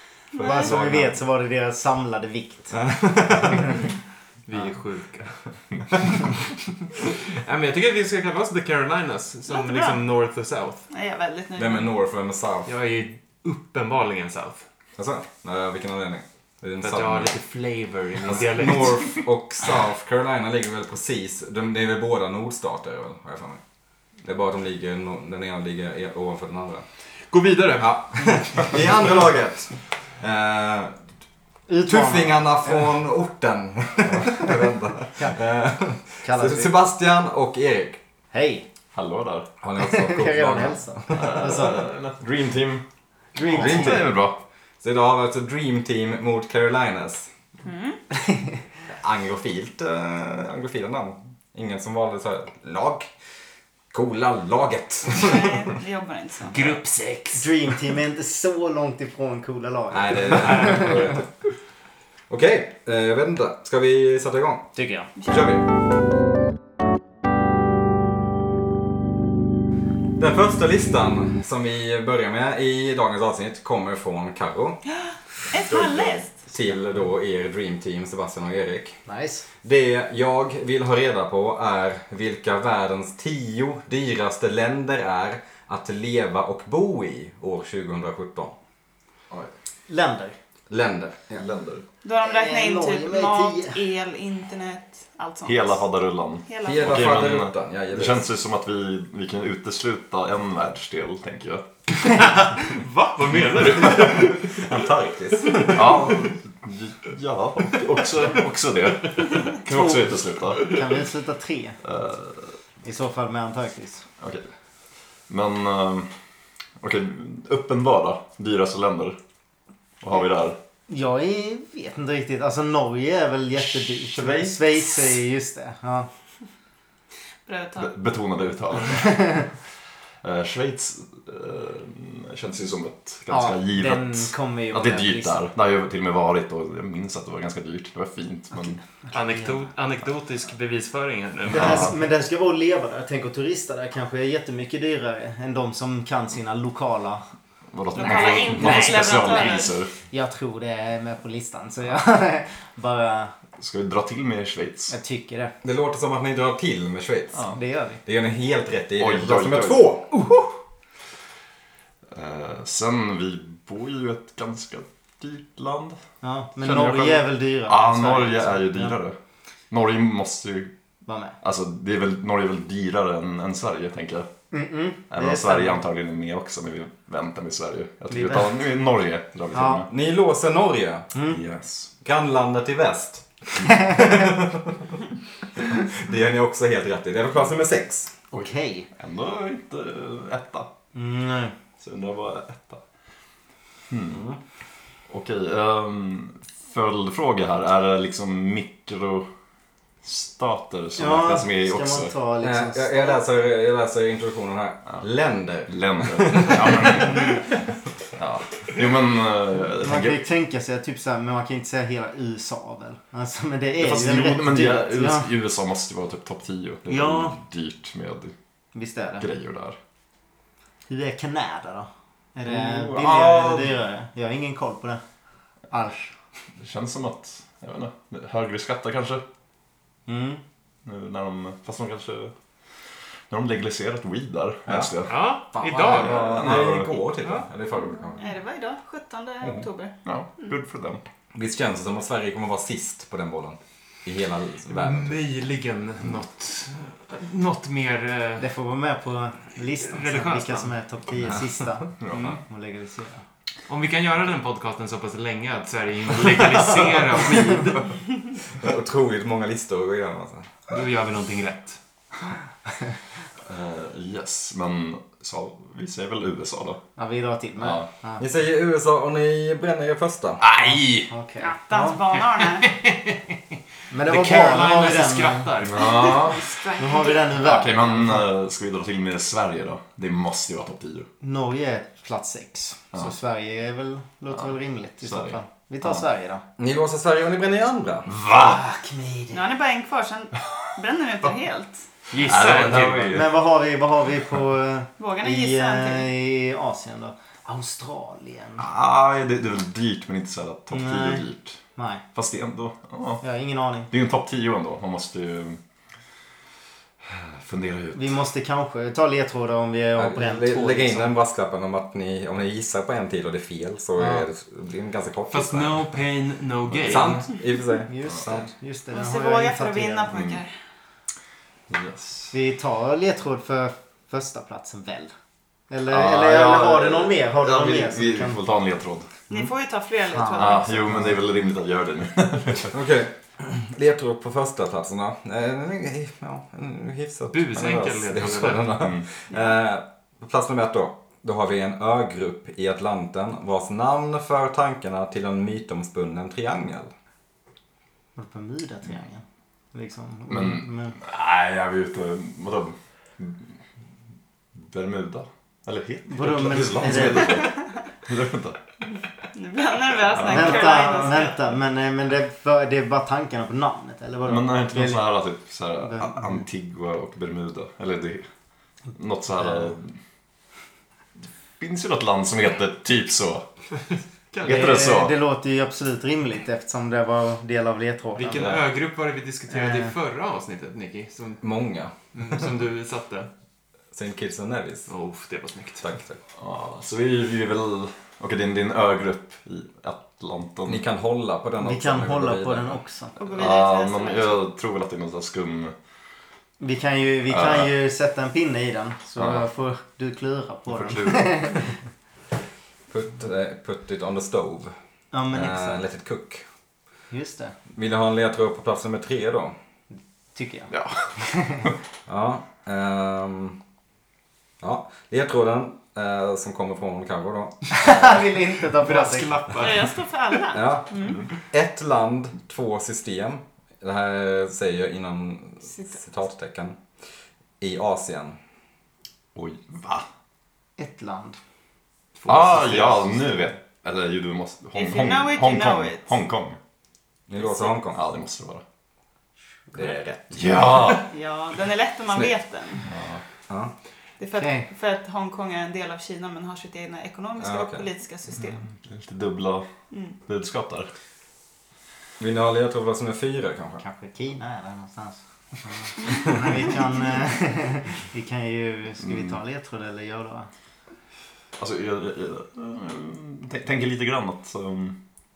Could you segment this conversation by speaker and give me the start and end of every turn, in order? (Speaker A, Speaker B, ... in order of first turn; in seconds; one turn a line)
Speaker A: 0.3-0.7
Speaker B: 0.3-1.1
Speaker C: 0.4-2.9
Speaker B: 2.8-3.7
Speaker D: 4.5-5.4
Speaker D: 6.0-10.8
Speaker A: 9.5-10.0
Speaker A: 10.9-11.9
Speaker B: 11.6-12.7
Speaker D: 12.7-14.6
Speaker B: 15.0-17.3
Speaker D: 16.8-19.2
Speaker B: 18.2-23.6
Speaker B: 24.2-26.8
Speaker D: 27.3-29.0
Speaker B: 27.8-31.0
Speaker C: 31.7-32.9
Speaker B: 31.9-38.0
Speaker C: 35.1-35.4
Speaker C: 36.2-36.7
Speaker C: 38.3-38.6
Speaker E: 38.9-39.5
Speaker B: 39.6-41.8
Speaker C: 39.8-41.9
Speaker E: 41.1-42.8
Speaker C: 43.3-44.1
Speaker E: 43.5-44.4
Speaker B: 43.5-44.1
Speaker B: 44.8-47.3
Speaker A: 47.6-48.0
Speaker C: 48.3-48.5
Speaker B: 48.9-53.1
Speaker B: 53.9-55.6
Speaker A: 55.1-56.8
Speaker D: 56.5-57.5
Speaker C: 57.3-61.1
Speaker B: 59.9-61.2
Speaker B: 62.3-64.7
Speaker C: 64.8-65.1
Speaker A: 65.2-65.5
Speaker B: 65.2-65.7
Speaker B: 70.2-74.8
Speaker A: 74.9-76.4
Speaker E: 75.6-76.2
Speaker B: 76.5-79.0
Speaker C: 79.0-79.5
Speaker B: 79.6-88.5
Speaker C: 89.9-90.3
Speaker B: 90.7-91.4
Speaker E: 91.4-91.8
Speaker A: 92.0-95.8
Speaker C: 92.2-93.8
Speaker E: 95.5-102.2
Speaker A: 96.4-97.1
Speaker B: 96.6-98.2
Speaker D: 102.1-104.5
Speaker B: 103.6-106.1
Speaker E: 103.7-104.0
Speaker E: 105.6-110.8
Speaker C: 110.5-111.8
Speaker E: 111.8-112.5
Speaker C: 112.8-114.0
Speaker E: 114.2-114.5
Speaker E: 115.3-116.1
Speaker E: 116.8-119.2
Speaker E: 120.0-120.6
Speaker C: 120.9-126.1
Speaker E: 123.6-125.2
Speaker A: 127.4-127.9
Speaker E: 127.8-129.6
Speaker C: 129.0-129.4
Speaker E: 130.2-138.8
Speaker C: 133.3-135.4
Speaker C: 138.5-139.7
Speaker D: 139.1-141.9
Speaker C: 141.5-147.2
Speaker E: 141.6-141.9
Speaker E: 147.7-149.9
Speaker A: 147.9-149.8
Speaker D: 148.6-149.3
Speaker C: 150.1-153.3
Speaker E: 153.6-154.9
Speaker C: 154.9-155.5
Speaker B: 155.6-157.4
Speaker C: 157.5-158.0
Speaker B: 158.0-160.1
Speaker E: 159.0-159.9
Speaker C: 160.1-160.5
Speaker E: 162.1-166.0
Speaker C: 166.2-169.0
Speaker E: 166.6-169.2
Speaker E: 169.7-170.7
Speaker C: 171.0-171.3
Speaker E: 171.4-174.3
Speaker C: 174.5-175.8
Speaker E: 175.1-179.9
Speaker C: 178.1-178.6
Speaker C: 179.5-179.8
Speaker B: 179.9-181.1
Speaker C: 181.1-181.4
Speaker E: 181.3-181.9
Speaker B: 182.0-184.7
Speaker B: 185.6-188.1
Speaker C: 188.3-188.9
Speaker E: 188.3-190.7
Speaker C: 190.9-191.5
Speaker E: 191.8-192.8
Speaker E: 193.9-194.2
Speaker B: 194.1-194.4
Speaker E: 195.1-199.3
Speaker E: 200.0-202.1
Speaker C: 200.9-203.2
Speaker B: 202.4-207.4
Speaker E: 205.7-207.4
Speaker E: 208.2-210.2
Speaker C: 209.8-215.3
Speaker E: 213.8-218.3
Speaker C: 216.9-217.4
Speaker C: 218.7-219.2
Speaker E: 219.2-219.8
Speaker C: 220.9-225.0
Speaker E: 222.4-223.8
Speaker C: 225.7-226.1
Speaker E: 226.6-229.2
Speaker C: 230.1-230.4
Speaker E: 230.8-232.3
Speaker E: 233.3-235.2
Speaker B: 234.7-234.9
Speaker D: 235.1-237.4
Speaker B: 235.5-238.3
Speaker E: 235.8-236.9
Speaker A: 238.1-240.5
Speaker E: 239.4-241.0
Speaker B: 241.3-245.2
Speaker D: 244.7-248.4
Speaker C: 248.4-253.2
Speaker D: 249.8-250.7
Speaker E: 252.0-252.4
Speaker D: 252.1-252.4
Speaker D: 253.7-257.8
Speaker B: 257.1-260.5
Speaker D: 260.7-261.8
Speaker E: 263.4-266.8
Speaker C: 267.0-268.2
Speaker E: 267.6-267.9
Speaker B: 268.2-270.4
Speaker E: 270.4-271.1
Speaker C: 271.0-272.0
Speaker A: 271.4-272.8
Speaker D: 272.5-273.4
Speaker C: 273.9-275.5
Speaker D: 274.1-276.2
Speaker E: 275.6-276.6
Speaker A: 275.8-277.4
Speaker C: 276.8-278.3
Speaker E: 277.4-281.1
Speaker C: 281.2-286.4
Speaker E: 285.0-286.0
Speaker B: 286.6-288.1
Speaker E: 288.1-288.6
Speaker C: 288.2-289.5
Speaker A: 289.3-291.8
Speaker D: 292.1-293.2
Speaker E: 292.1-293.3
Speaker C: 293.1-298.6
Speaker A: 295.0-296.1
Speaker E: 298.6-301.6
Speaker C: 300.7-301.2
Speaker C: 301.7-302.0
Speaker E: 302.1-303.2
Speaker C: 303.2-303.9
Speaker E: 303.9-305.6
Speaker E: 307.0-308.1
Speaker C: 307.9-311.1
Speaker B: 309.9-315.8
Speaker C: 314.0-314.2
Speaker D: 315.3-317.2
Speaker E: 316.7-317.1
Speaker B: 316.8-318.5
Speaker C: 317.9-320.1
Speaker A: 318.9-320.5
Speaker E: 320.1-320.4
Speaker E: 321.7-322.3
Speaker C: 322.3-325.1
Speaker C: 325.7-328.4
Speaker E: 325.9-329.2
Speaker A: 329.3-330.9
Speaker C: 330.1-331.1
Speaker E: 330.4-332.8
Speaker B: 332.7-346.9
Speaker D: 337.3-338.8
Speaker E: 338.7-339.1
Speaker A: 339.3-339.5
Speaker C: 348.1-350.9
Speaker E: 350.3-353.4
Speaker E: 354.5-358.6
Speaker C: 356.1-357.4
Speaker A: 359.3-361.5
Speaker E: 360.1-360.7
Speaker C: 360.2-365.1
Speaker E: 364.2-368.3
Speaker C: 365.8-366.2
Speaker E: 368.9-369.9
Speaker E: 371.6-373.5
Speaker D: 374.3-374.9
Speaker E: 374.4-375.1
Speaker C: 374.4-378.5
Speaker D: 378.2-381.4
Speaker E: 378.3-378.6
Speaker C: 379.5-379.9
Speaker B: 381.4-381.9
Speaker D: 382.1-383.3
Speaker B: 383.9-384.9
Speaker D: 384.9-385.9
Speaker B: 385.8-386.2
Speaker E: 386.4-390.8
Speaker B: 390.6-392.8
Speaker C: 391.6-393.1
Speaker A: 393.1-394.4
Speaker E: 393.3-395.7
Speaker C: 396.6-401.8
Speaker E: 397.3-397.7
Speaker E: 400.7-401.3
Speaker B: 402.9-404.7
Speaker C: 405.1-405.9
Speaker B: 405.3-406.4
Speaker C: 407.1-407.5
Speaker B: 407.7-409.5
Speaker C: 410.3-410.7
Speaker E: 410.7-411.7
Speaker C: 411.2-411.7
Speaker B: 412.1-413.6
Speaker B: 414.6-418.2
Speaker C: 417.7-419.4
Speaker D: 418.7-419.9
Speaker A: 419.6-421.3
Speaker B: 420.5-426.8
Speaker B: 427.6-428.4
Speaker E: 429.3-430.1
Speaker C: 430.8-431.4
Speaker D: 432.2-433.0
Speaker E: 432.3-436.6
Speaker A: 434.7-436.1
Speaker B: 437.3-438.0
Speaker E: 437.9-438.6
Speaker B: 439.7-440.4
Speaker E: 440.3-441.1
Speaker A: 441.1-442.9
Speaker E: 442.8-443.2
Speaker A: 444.2-448.6
Speaker C: 444.3-444.7
Speaker B: 447.4-447.9
Speaker E: 448.6-449.7
Speaker A: 449.9-450.2
Speaker E: 450.2-450.9
Speaker B: 452.2-453.8
Speaker C: 453.8-460.5
Speaker E: 459.0-459.3
Speaker E: 461.6-465.0